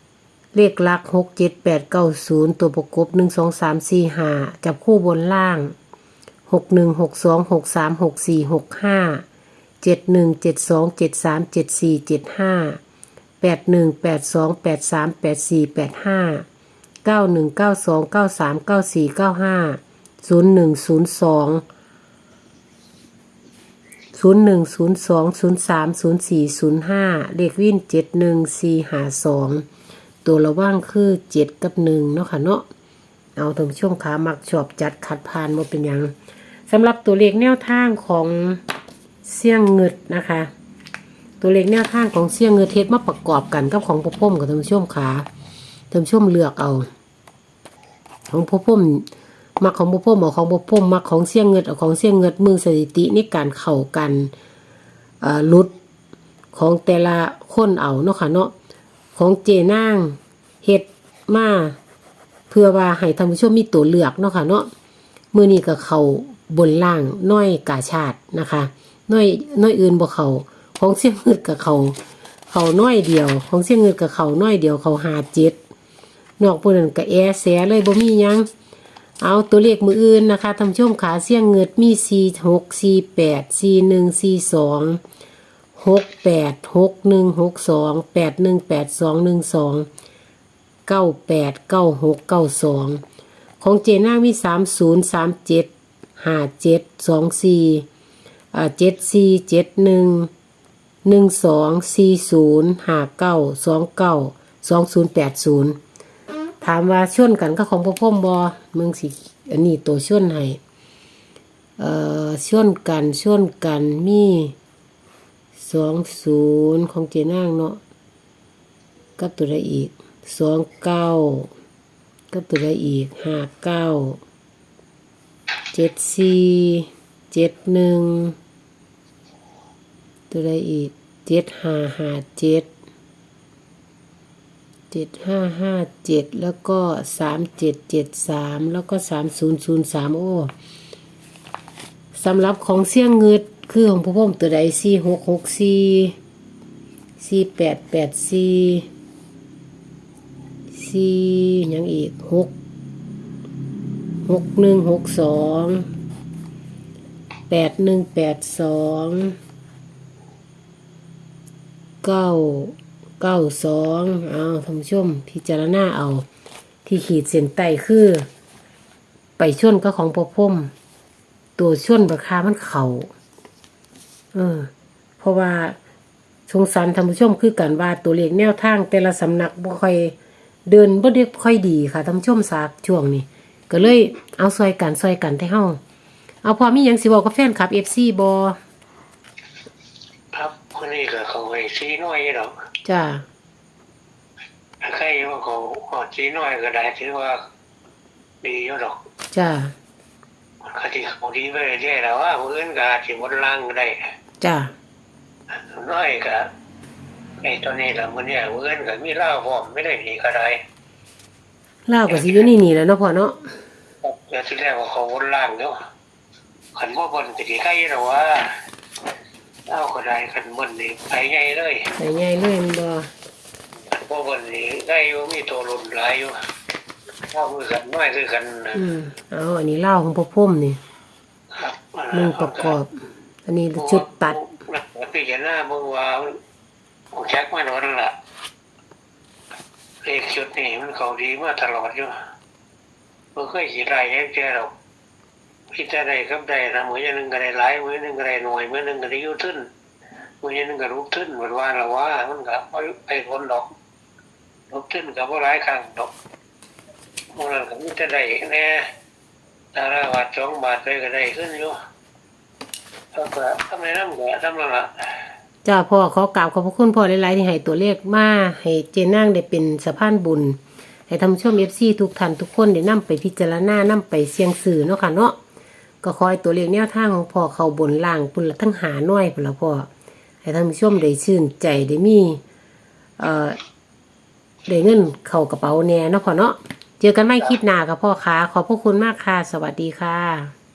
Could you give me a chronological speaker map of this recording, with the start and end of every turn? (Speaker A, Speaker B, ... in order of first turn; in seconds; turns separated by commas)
Speaker A: 0.5-5.7, Speaker A: 6.5-9.2, Speaker A: 9.8-12.8, Speaker A: 13.4-16.4, Speaker A: 17.0-21.6, Speaker A: 24.1-29.6, Speaker A: 30.2-32.6, Speaker A: 33.4-36.1, Speaker A: 36.7-38.6, Speaker A: 39.2-40.5, Speaker A: 41.4-45.2, Speaker A: 45.9-46.9, Speaker A: 48.3-49.0, Speaker A: 49.6-54.3, Speaker A: 55.2-55.7, Speaker A: 56.5-58.5, Speaker A: 59.1-61.8, Speaker A: 62.5-64.7, Speaker A: 65.3-72.0, Speaker A: 72.5-75.6, Speaker A: 76.4-78.5, Speaker A: 79.2-85.0, Speaker A: 85.8-89.9, Speaker A: 90.9-93.0, Speaker A: 93.6-97.9, Speaker A: 98.5-100.3, Speaker A: 101.0-105.8, Speaker A: 106.6-110.6, Speaker A: 111.8-114.5, Speaker A: 115.5-117.8, Speaker A: 119.2-121.5, Speaker A: 122.3-124.2, Speaker A: 125.7-128.3, Speaker A: 130.3-132.7, Speaker A: 134.9-140.5, Speaker A: 142.1-146.2, Speaker A: 147.2-148.9, Speaker A: 150.7-152.5, Speaker A: 154.2-155.9, Speaker A: 157.5-159.3, Speaker A: 162.0-166.2, Speaker A: 166.8-168.3, Speaker A: 169.4-170.7, Speaker A: 171.6-173.1, Speaker A: 174.3-175.8, Speaker A: 176.5-180.1, Speaker A: 180.7-185.8, Speaker A: 186.4-188.6, Speaker B: 190.3-192.5, Speaker A: 192.8-193.2, Speaker B: 194.8-197.4, Speaker B: 198.4-198.9, Speaker A: 199.3-199.7, Speaker B: 200.7-204.1, Speaker A: 204.4-204.7, Speaker B: 205.5-206.5, Speaker B: 207.4-210.6, Speaker A: 211.9-213.5, Speaker B: 212.1-212.4, Speaker B: 214.0-215.8, Speaker B: 216.7-218.6, Speaker B: 219.7-221.9, Speaker A: 222.0-223.1, Speaker B: 223.9-226.3, Speaker B: 227.3-228.8, Speaker A: 228.7-230.8, Speaker B: 231.5-232.8, Speaker A: 232.1-232.9, Speaker A: 233.4-234.4, Speaker B: 233.8-236.4, Speaker B: 237.1-238.1, Speaker B: 240.0-242.1, Speaker B: 243.3-244.7, Speaker B: 245.7-249.7, Speaker B: 250.4-253.7, Speaker B: 254.7-256.1, Speaker B: 257.3-258.8, Speaker B: 259.7-261.8, Speaker B: 263.1-265.2, Speaker A: 265.6-275.4, Speaker A: 276.0-279.9, Speaker A: 280.4-282.4, Speaker A: 283.2-283.6, Speaker A: 284.7-290.5